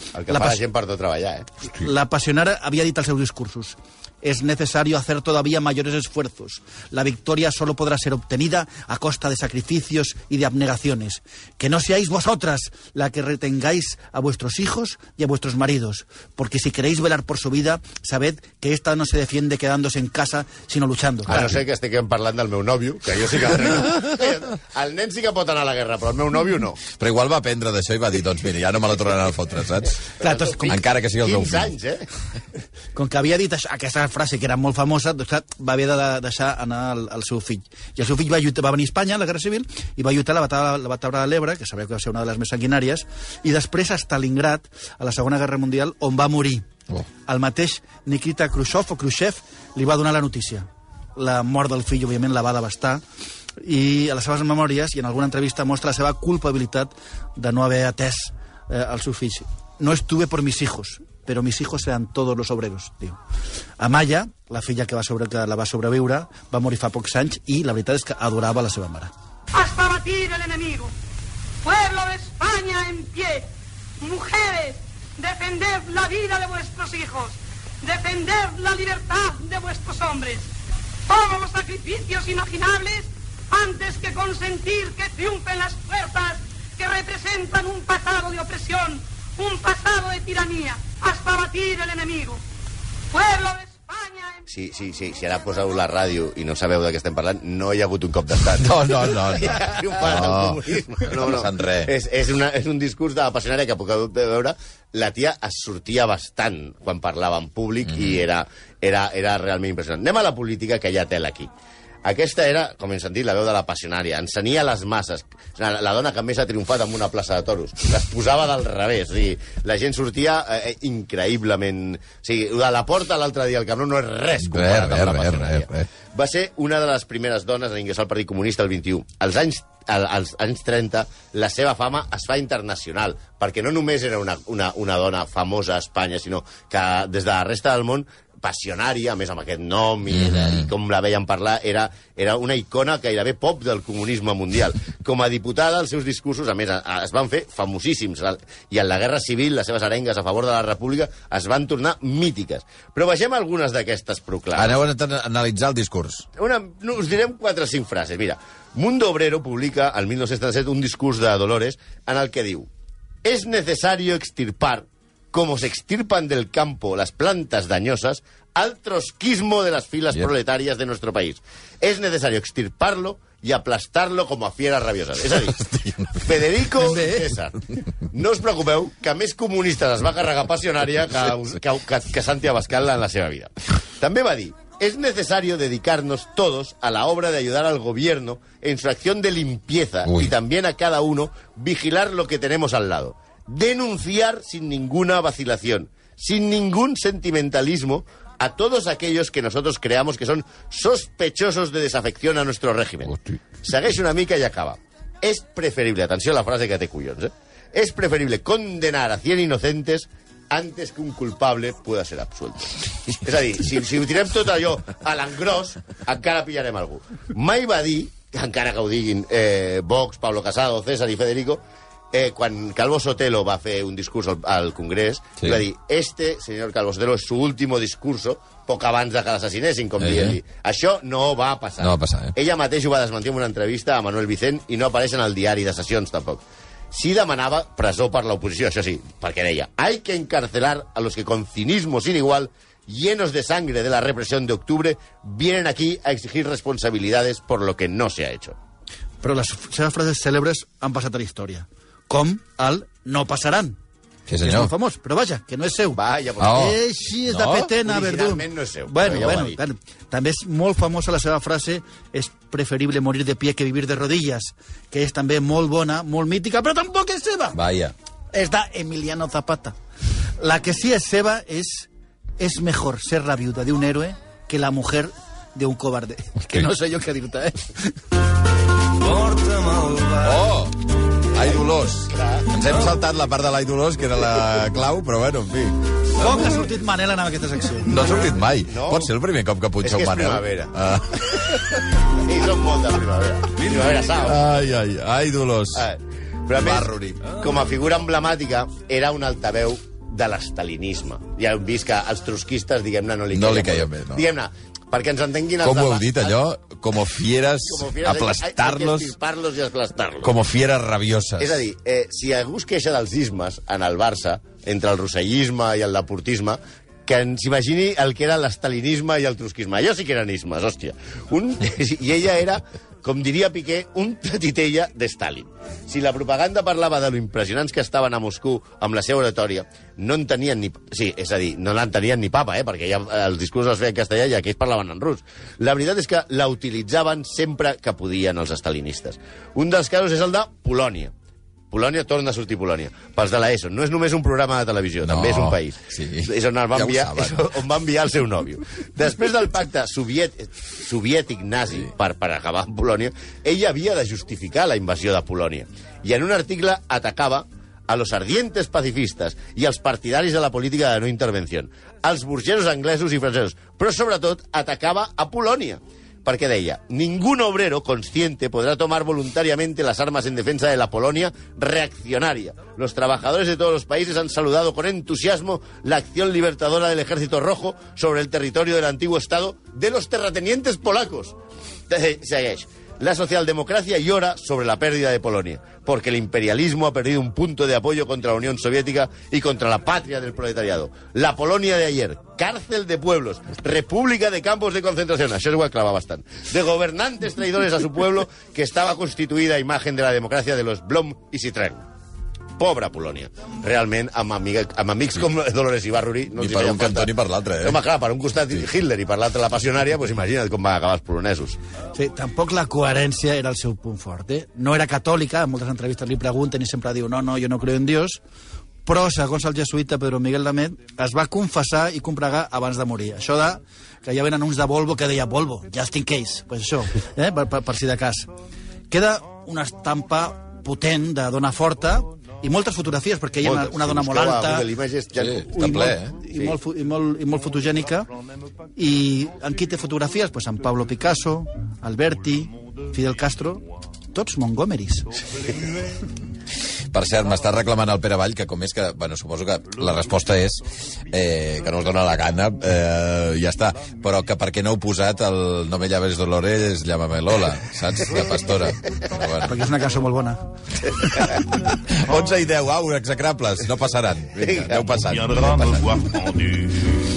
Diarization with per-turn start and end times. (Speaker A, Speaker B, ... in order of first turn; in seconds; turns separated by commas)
Speaker A: 0.1-1.5, Speaker B: 0.3-0.6, Speaker B: 1.6-21.6, Speaker A: 21.3-26.8, Speaker C: 27.0-30.0, Speaker B: 30.2-30.8, Speaker C: 30.6-31.7, Speaker A: 31.2-32.0, Speaker B: 33.0-46.7, Speaker B: 47.3-53.0, Speaker B: 53.6-63.2, Speaker B: 63.8-69.1, Speaker D: 69.5-70.9, Speaker D: 71.6-73.5, Speaker D: 74.0-80.5, Speaker D: 81.1-92.4, Speaker D: 93.1-94.5, Speaker A: 94.5-111.5, Speaker C: 98.6-101.9, Speaker C: 107.9-108.2, Speaker A: 112.0-154.8, Speaker C: 124.4-125.9, Speaker C: 140.1-140.7, Speaker C: 154.6-156.3, Speaker A: 156.4-162.7, Speaker A: 163.2-175.6, Speaker C: 175.5-176.2, Speaker A: 176.2-248.6, Speaker B: 176.8-177.3, Speaker C: 190.0-190.3, Speaker C: 230.0-230.4, Speaker C: 231.8-232.3, Speaker B: 249.2-253.8, Speaker C: 254.3-254.7, Speaker B: 254.4-267.6, Speaker A: 255.9-256.6, Speaker C: 256.4-257.7, Speaker A: 257.8-259.6, Speaker C: 267.5-267.9, Speaker B: 268.3-269.8, Speaker B: 270.4-271.9, Speaker B: 272.4-277.9, Speaker E: 279.0-280.4, Speaker C: 280.2-285.8, Speaker A: 282.1-282.5, Speaker B: 286.2-287.9, Speaker C: 287.8-291.8, Speaker A: 288.7-289.1, Speaker A: 289.8-290.7, Speaker A: 292.2-294.5, Speaker C: 294.2-295.9, Speaker A: 295.7-306.4, Speaker C: 296.6-297.4, Speaker C: 303.3-304.3, Speaker C: 305.6-309.1, Speaker A: 307.6-310.3, Speaker C: 310.2-311.6, Speaker A: 311.4-341.1, Speaker A: 341.7-381.4, Speaker C: 345.0-347.5, Speaker A: 381.9-401.8, Speaker A: 402.6-411.6, Speaker C: 406.4-407.8, Speaker B: 411.9-418.2, Speaker B: 418.9-428.3, Speaker B: 428.9-434.7, Speaker A: 433.4-435.5, Speaker C: 435.1-436.2, Speaker B: 435.4-438.1, Speaker B: 438.8-445.1, Speaker C: 446.9-459.5, Speaker B: 459.4-460.4, Speaker C: 461.7-465.8, Speaker A: 464.4-464.9, Speaker E: 465.0-466.8